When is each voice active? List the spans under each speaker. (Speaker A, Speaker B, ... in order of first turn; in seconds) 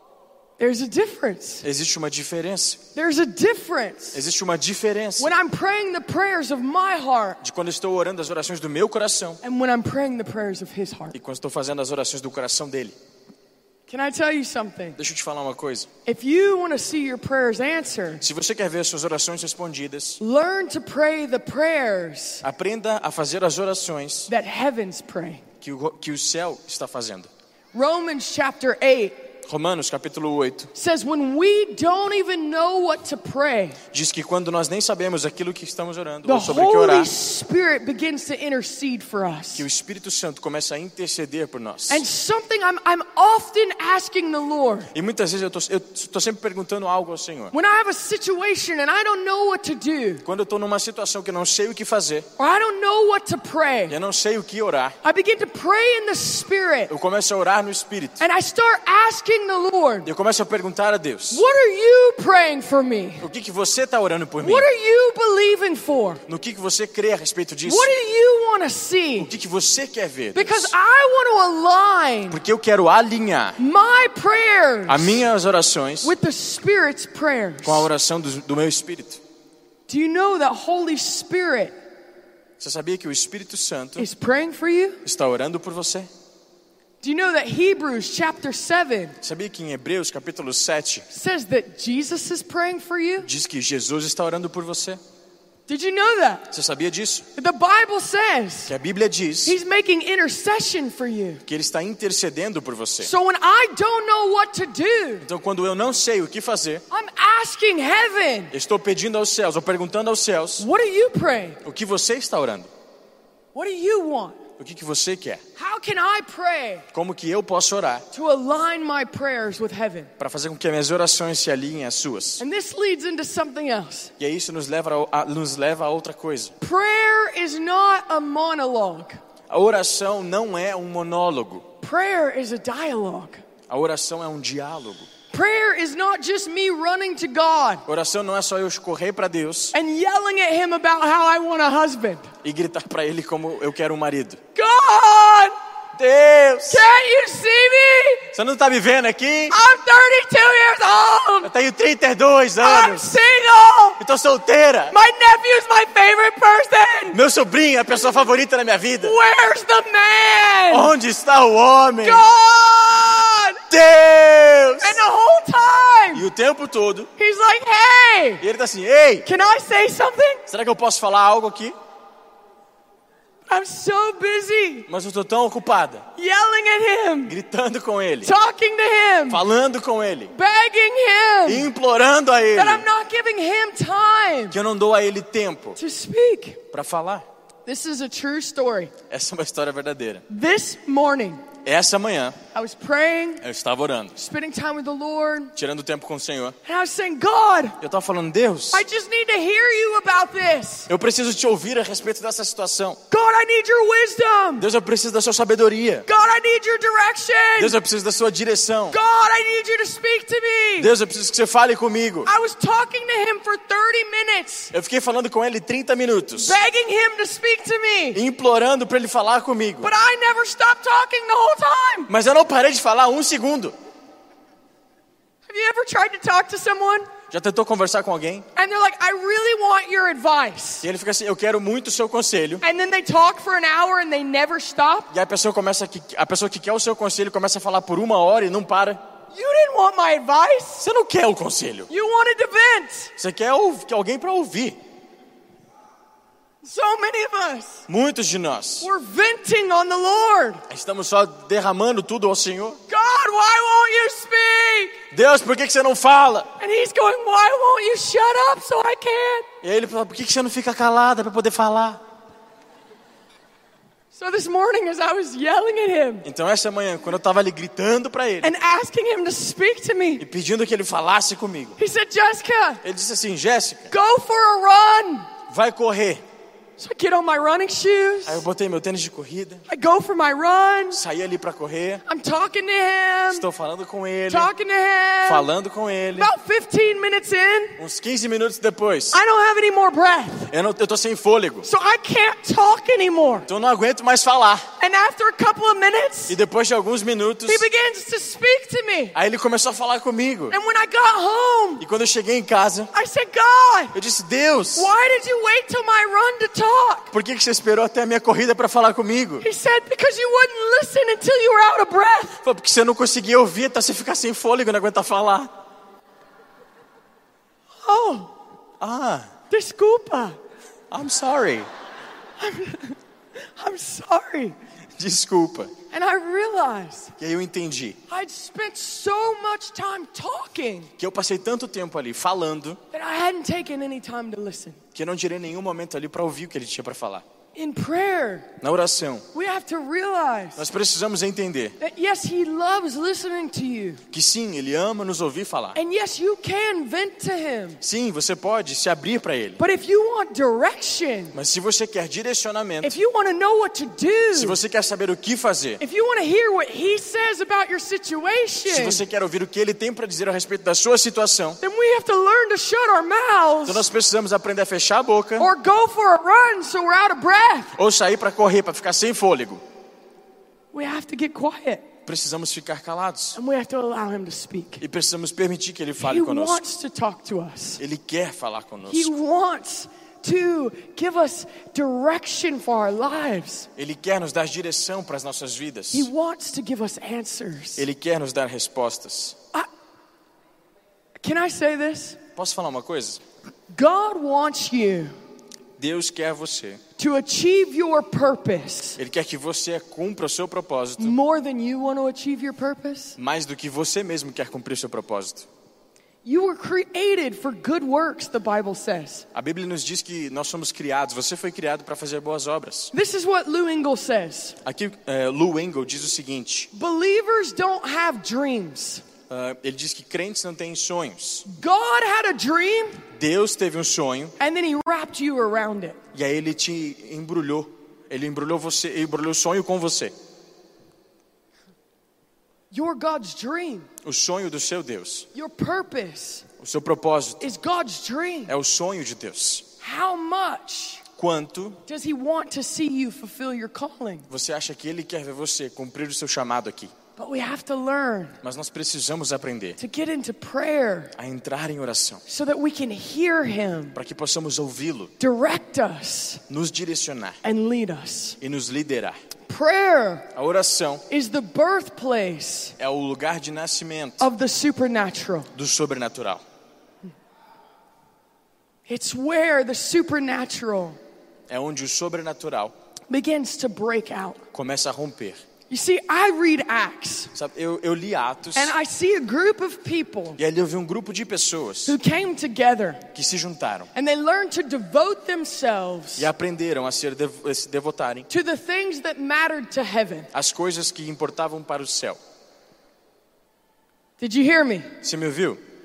Speaker A: 0.6-1.6, 3.0-4.2, 5.2-7.4, 9.4-11.2, 13.9-15.0, 16.1-18.2, 20.2-22.4, 24.3-25.4, 27.7-29.2, 30.8-33.8, 36.2-39.7, 41.9-44.9, 47.5-50.2, 52.4-54.0, 55.0-56.9, 58.2-60.1, 61.3-63.3, 64.4-66.2, 67.7-69.3, 70.3-72.4, 73.6-75.2, 76.0-77.9, 79.9-81.8, 84.0-85.0, 87.0-89.2, 91.1-93.3, 95.7-96.5, 97.4-98.7, 99.5-101.4, 103.0-105.3, 106.9-108.5, 110.6-111.6, 113.5-114.4, 115.6-116.9, 118.1-120.1, 122.4-124.1, 126.6-129.2, 131.8-133.4, 135.3-137.8, 139.7-142.3, 144.6-145.6, 146.7-148.3, 149.5-151.5, 152.6-154.0, 154.9-157.2, 159.0-160.9, 162.0-163.6, 164.8-166.3, 167.2-168.4, 169.2-170.4, 173.5-174.9, 176.2-177.3, 178.2-179.4, 180.3-181.7, 182.6-184.6, 185.8-186.6, 187.7-188.9, 190.3-191.4, 192.5-193.4, 194.2-195.5, 196.6-197.8, 198.7-200.9, 203.1-204.7, 206.1-207.8, 208.9-210.9, 212.2-214.7, 216.3-218.2, 219.8-222.1, 225.5-227.1, 228.6-230.9, 232.6-235.1, 239.3-240.9, 241.9-243.1, 246.6-247.8, 248.8-250.6, 252.9-255.0, 256.6-259.5, 264.1-266.3, 268.4-270.2, 271.8-272.8, 273.9-275.3, 276.8-278.4, 279.7-281.0, 282.1-283.5, 284.3-285.5, 286.1-287.8, 289.1-290.5, 291.6-293.5, 294.8-296.4, 297.5-299.2, 300.5-301.8, 302.9-303.9, 304.8-307.1, 309.4-312.4, 317.8-318.3, 319.5-320.4, 322.4-324.6, 325.9-327.1, 328.1-330.9, 332.9-334.8, 337.6-338.5, 339.3-340.7, 341.8-344.0, 345.8-347.8, 349.6-351.4, 352.8-354.6, 355.8-359.0, 361.6-363.9, 365.4-367.8, 370.7-371.9, 373.4-374.8, 376.0-377.8, 378.9-383.7, 385.9-387.9, 391.2-392.2, 393.7-395.1, 397.0-399.0, 401.0-403.2, 406.2-409.3, 412.9-414.6, 416.7-419.0, 421.4-423.0, 424.4-426.0, 432.7-433.9, 435.3-436.5, 437.4-438.6, 439.8-441.0, 441.9-444.3, 447.2-448.4, 449.8-451.1, 452.3-454.0, 455.2-456.4, 457.4-458.4, 459.5-460.3, 461.1-462.8, 464.2-465.5, 468.9-471.0, 473.1-474.4, 475.7-477.3, 478.6-480.4, 481.9-483.1, 483.9-486.3, 488.3-490.3, 494.2-494.9
Speaker B: 1.6-2.8, 4.1-5.3, 7.4-9.4, 11.1-13.0, 15.0-15.9, 18.2-20.2, 22.4-24.3, 25.6-27.3, 29.5-30.7, 33.9-37.1, 39.6-42.0, 44.9-47.5, 50.2-52.3, 53.9-55.0, 56.9-58.2, 60.0-61.4, 63.2-64.7, 66.3-67.9, 69.2-70.7, 72.3-73.6, 74.9-76.1, 77.6-79.2, 82.6-84.1, 85.0-86.1, 89.2-91.1, 93.2-95.0, 96.5-97.3, 98.7-99.6, 101.5-103.1, 105.2-106.8, 108.5-110.7, 111.6-112.7, 114.6-115.4, 116.9-118.0, 120.2-122.4, 124.2-126.5, 129.5-131.7, 133.7-135.1, 137.9-139.8, 142.4-144.4, 146.0-146.9, 148.3-149.6, 151.4-153.2, 154.0-154.9, 157.1-159.2, 160.7-162.2, 163.7-165.0, 166.1-167.1, 168.4-169.3, 170.5-171.8, 174.9-176.1, 177.3-178.3, 179.3-180.3, 181.5-182.9, 184.5-185.8, 186.7-187.3, 189.1-190.2, 191.6-192.4, 193.4-194.3, 195.6-196.6, 197.8-198.8, 200.9-203.0, 204.6-206.1, 207.6-209.0, 210.8-212.3, 214.7-216.6, 218.1-219.9, 222.1-223.8, 227.3-228.5, 230.8-232.6, 235.1-239.0, 240.8-241.9, 243.2-244.8, 247.9-248.9, 250.7-252.8, 255.1-256.5, 259.6-262.0, 266.2-268.5, 270.2-271.8, 272.8-273.9, 275.5-276.2, 278.3-279.6, 280.9-282.0, 283.3-284.5, 285.2-286.3, 287.8-289.2, 290.5-291.7, 293.5-294.7, 296.3-297.6, 299.1-300.6, 301.8-302.9, 303.9-304.9, 307.1-309.5, 312.4-315.6, 318.8-319.3, 320.9-321.7, 325.0-325.7, 327.2-328.0, 331.0-332.8, 334.9-337.2, 338.6-339.3, 340.6-341.8, 344.1-345.8, 347.8-349.6, 351.3-353.0, 354.4-355.8, 358.7-361.6, 363.6-365.5, 367.8-369.6, 372.1-373.4, 374.8-376.6, 377.8-379.1, 383.8-386.1, 387.8-389.4, 392.4-393.2, 395.8-396.8, 399.0-401.2, 403.2-405.5, 409.3-412.9, 414.6-416.7, 419.3-421.5, 423.1-424.4, 426.1-430.1, 434.0-435.3, 436.6-437.4, 438.5-439.7, 441.2-441.8, 444.3-446.9, 448.4-449.8, 451.1-452.2, 453.9-455.1, 456.5-457.4, 458.4-459.2, 460.3-461.0, 462.8-464.3, 465.5-466.4, 471.5-472.8, 474.5-475.4, 477.4-478.7, 480.4-482.0, 483.1-483.9, 486.2-488.3, 490.3-492.2, 495.0-495.6